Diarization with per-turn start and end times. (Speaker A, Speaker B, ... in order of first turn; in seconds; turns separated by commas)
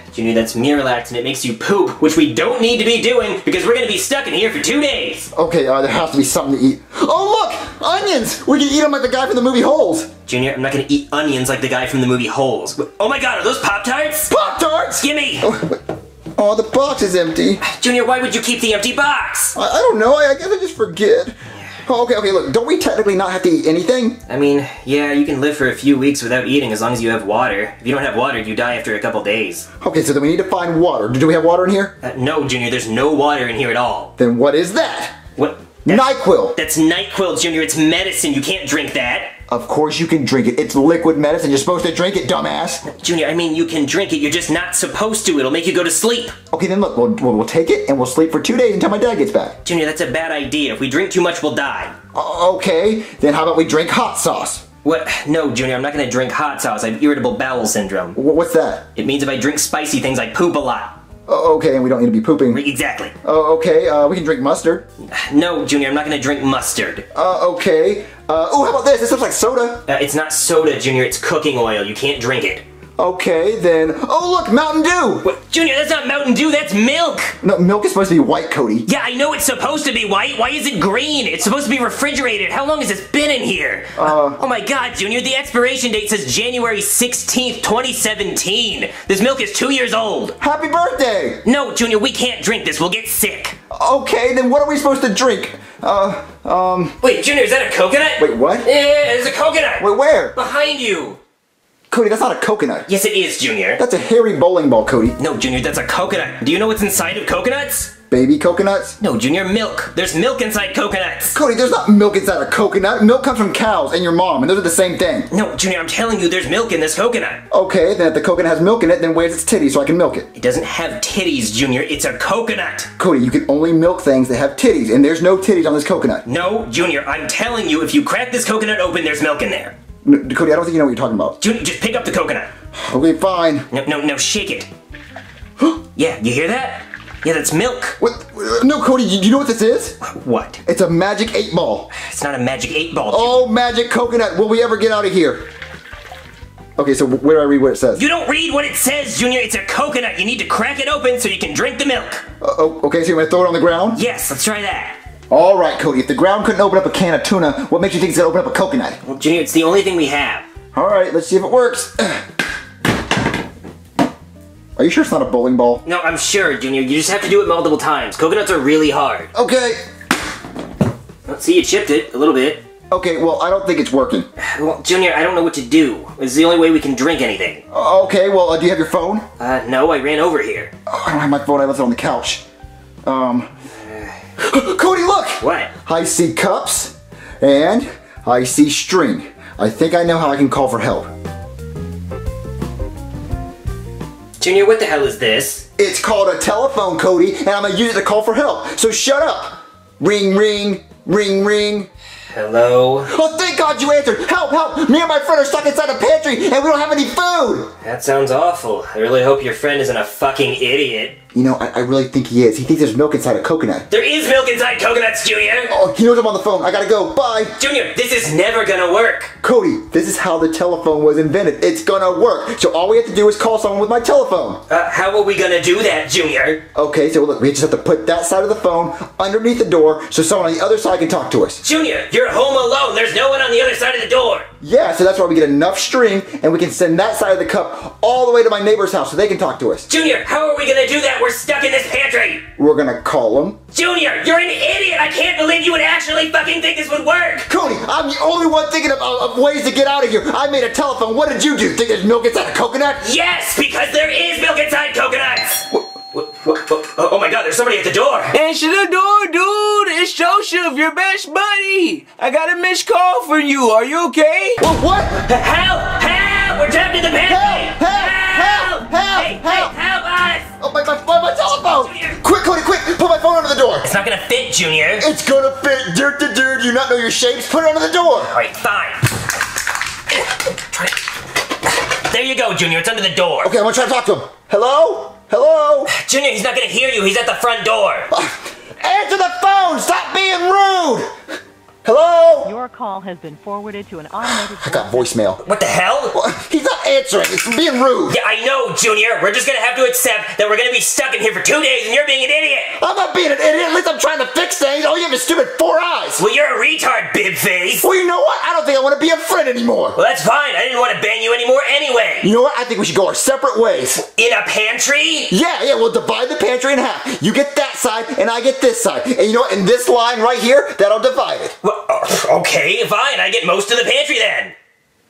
Speaker A: 0.1-5.3, Speaker B: 5.3-10.1, Speaker A: 10.2-14.3, Speaker B: 14.3-15.8, Speaker A: 15.0-15.5, Speaker B: 16.4-17.6, Speaker A: 17.6-19.6, Speaker B: 19.5-24.2, Speaker A: 24.3-29.7, Speaker B: 29.8-31.9, Speaker A: 32.0-34.1, Speaker B: 34.2-35.2, Speaker A: 35.4-39.4, Speaker B: 35.8-36.6, Speaker B: 39.5-42.8, Speaker A: 42.8-46.3, Speaker B: 46.5-49.5, Speaker A: 49.6-51.9, Speaker B: 52.1-54.6, Speaker A: 54.8-58.2, Speaker B: 58.1-58.9, Speaker A: 59.0-61.0, Speaker B: 61.3-62.6, Speaker A: 62.5-63.1, Speaker B: 63.2-64.8, Speaker A: 65.0-67.0, Speaker B: 67.1-69.8, Speaker A: 69.9-72.6, Speaker B: 73.0-75.3, Speaker A: 75.2-77.4, Speaker B: 77.4-78.9, Speaker A: 78.8-90.4, Speaker B: 84.0-84.4, Speaker B: 90.4-91.4, Speaker A: 91.4-93.6, Speaker B: 93.7-97.0, Speaker A: 97.0-101.2, Speaker B: 98.2-98.7, Speaker B: 99.8-100.3, Speaker B: 101.9-102.9, Speaker A: 102.9-103.8, Speaker B: 103.8-105.2, Speaker A: 105.2-107.9, Speaker B: 108.1-109.0, Speaker A: 109.0-111.4, Speaker B: 111.3-115.3, Speaker A: 115.3-117.4, Speaker B: 117.5-120.3, Speaker A: 120.3-122.9, Speaker B: 123.0-126.2, Speaker A: 126.2-129.7, Speaker B: 130.0-131.4, Speaker A: 131.4-132.5, Speaker B: 132.7-133.7, Speaker A: 133.7-134.7, Speaker A: 135.9-138.0, Speaker B: 138.0-140.0, Speaker A: 140.0-140.6, Speaker B: 140.6-141.9, Speaker A: 141.9-143.4, Speaker B: 143.1-145.5, Speaker B: 146.8-148.0, Speaker A: 147.9-152.2, Speaker B: 152.4-154.0, Speaker A: 153.9-155.0, Speaker B: 155.3-159.0, Speaker A: 159.0-160.4, Speaker B: 160.7-162.2, Speaker B: 164.8-165.8, Speaker A: 165.8-169.3, Speaker B: 169.3-169.8, Speaker A: 171.2-172.6, Speaker B: 172.9-174.3, Speaker A: 174.4-177.6, Speaker B: 177.7-179.3, Speaker A: 179.4-180.7, Speaker B: 180.9-182.4, Speaker B: 183.0-183.5, Speaker A: 183.9-184.1, Speaker B: 184.4-191.1, Speaker A: 185.4-185.7, Speaker A: 194.4-195.7, Speaker B: 195.8-201.9, Speaker A: 202.3-203.1, Speaker B: 203.1-207.7, Speaker A: 207.8-211.2, Speaker B: 211.3-213.9, Speaker A: 213.9-215.7, Speaker B: 215.7-217.6, Speaker A: 217.6-219.3, Speaker B: 219.4-224.6, Speaker A: 224.7-226.6, Speaker B: 226.7-231.6, Speaker A: 231.6-234.5, Speaker B: 234.6-239.9, Speaker A: 239.9-242.4, Speaker B: 242.6-243.6, Speaker A: 243.7-247.5, Speaker B: 247.5-253.0, Speaker A: 253.0-258.3, Speaker C: 258.3-264.6, Speaker B: 264.6-265.2, Speaker A: 265.2-270.5, Speaker B: 267.2-269.7, Speaker B: 270.6-273.9, Speaker A: 271.6-272.2, Speaker A: 273.8-275.1, Speaker B: 275.0-278.3, Speaker A: 278.2-279.1, Speaker A: 281.9-283.5, Speaker B: 283.4-285.9, Speaker A: 285.9-288.1, Speaker B: 288.1-291.1, Speaker B: 291.8-292.5, Speaker D: 292.4-295.1, Speaker B: 294.6-295.4, Speaker A: 295.4-296.2, Speaker B: 296.1-298.2, Speaker A: 298.1-302.8, Speaker B: 302.8-306.2, Speaker A: 306.2-307.8, Speaker B: 307.8-310.0, Speaker A: 309.9-312.3, Speaker B: 312.2-314.0, Speaker A: 313.9-315.3, Speaker B: 315.3-321.5, Speaker A: 321.6-324.5